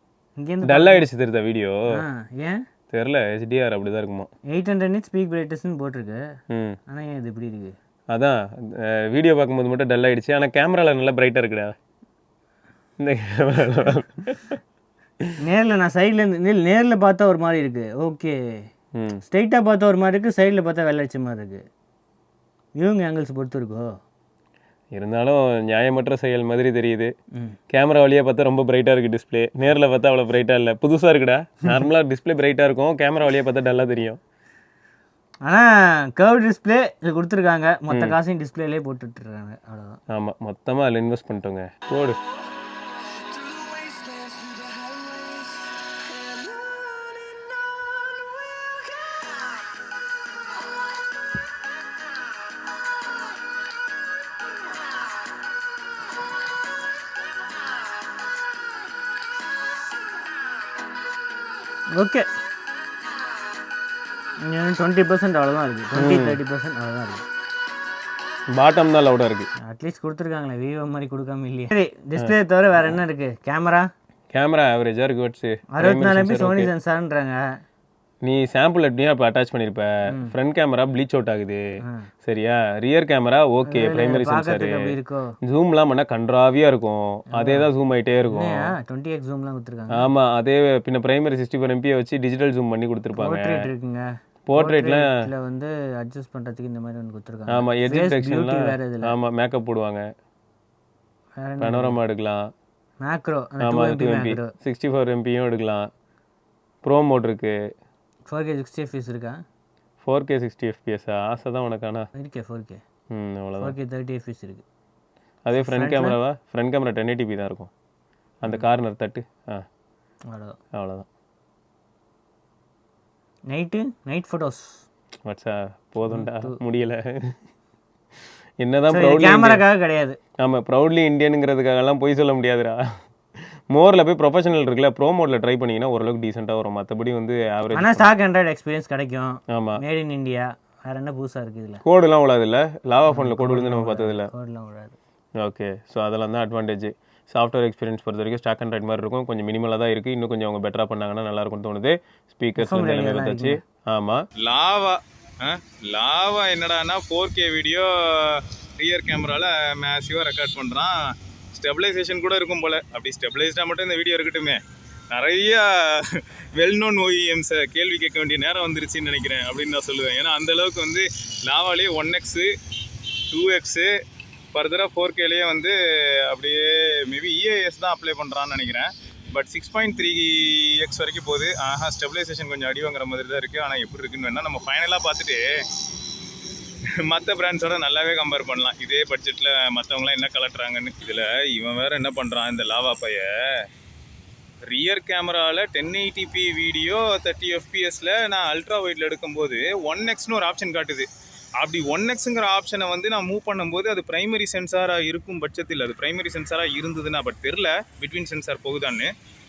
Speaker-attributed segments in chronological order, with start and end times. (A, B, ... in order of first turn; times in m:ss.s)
0:00.4-0:01.0 A
0:00.6-0:01.8 B
0:01.9-0:02.6 A
0:02.9-0:04.3 B
0:04.5-0:06.2 A
0:06.5-0:06.8 B
0:06.9-0:07.7 A
0:08.1-0:11.8 B
0:13.0-0:14.6 B
0:15.4-0:18.4 A
0:19.0-0:19.2 B
0:19.2-0:21.6 A
0:22.8-0:23.9 A
0:24.9-0:27.1 B
0:27.7-0:34.2 B
0:35.5-0:40.0 A
0:37.9-0:38.2 B
0:40.1-0:42.2 B
1:01.9-1:02.3 A
1:04.4-1:07.2 A
1:06.0-1:06.4 B
1:08.6-1:09.5 B
1:09.6-1:13.9 A
1:14.3-1:16.7 B
1:15.7-1:17.4 A
1:18.2-1:21.6 B
1:22.2-1:24.9 B
1:23.7-1:25.3 A
1:25.4-1:28.7 B
1:27.4-1:27.7 A
1:28.2-1:30.1 A
1:29.9-1:33.7 B
1:33.2-1:39.1 A
1:34.5-1:35.1 B
1:37.5-1:40.0 B
1:41.4-1:42.0 A
1:41.6-1:42.5 B
1:43.0-1:44.5 A
1:43.6-1:45.9 B
1:46.8-1:47.6 B
1:48.3-1:49.4 A
1:50.0-1:52.1 B
1:52.2-1:52.8 A
1:53.1-1:53.8 B
1:53.6-1:54.6 A
1:55.4-1:57.7 B
1:55.6-1:56.2 A
1:58.4-1:59.6 B
2:00.3-2:00.6 A
2:00.7-2:01.1 B
2:03.5-2:04.8 A
2:05.3-2:07.3 B
2:06.1-2:06.5 A
2:08.6-2:09.6 B
2:08.9-2:10.2 A
2:10.4-2:12.8 B
2:13.7-2:18.1 B
2:17.7-2:21.8 A
2:19.5-2:19.8 B
2:21.8-2:24.3 B
2:23.1-2:25.0 A
2:25.4-2:34.2 B
2:32.6-2:33.6 A
2:34.4-2:52.6 C
2:53.3-2:54.0 C
2:54.5-3:05.7 C
3:06.9-3:13.7 C
3:14.7-3:29.1 C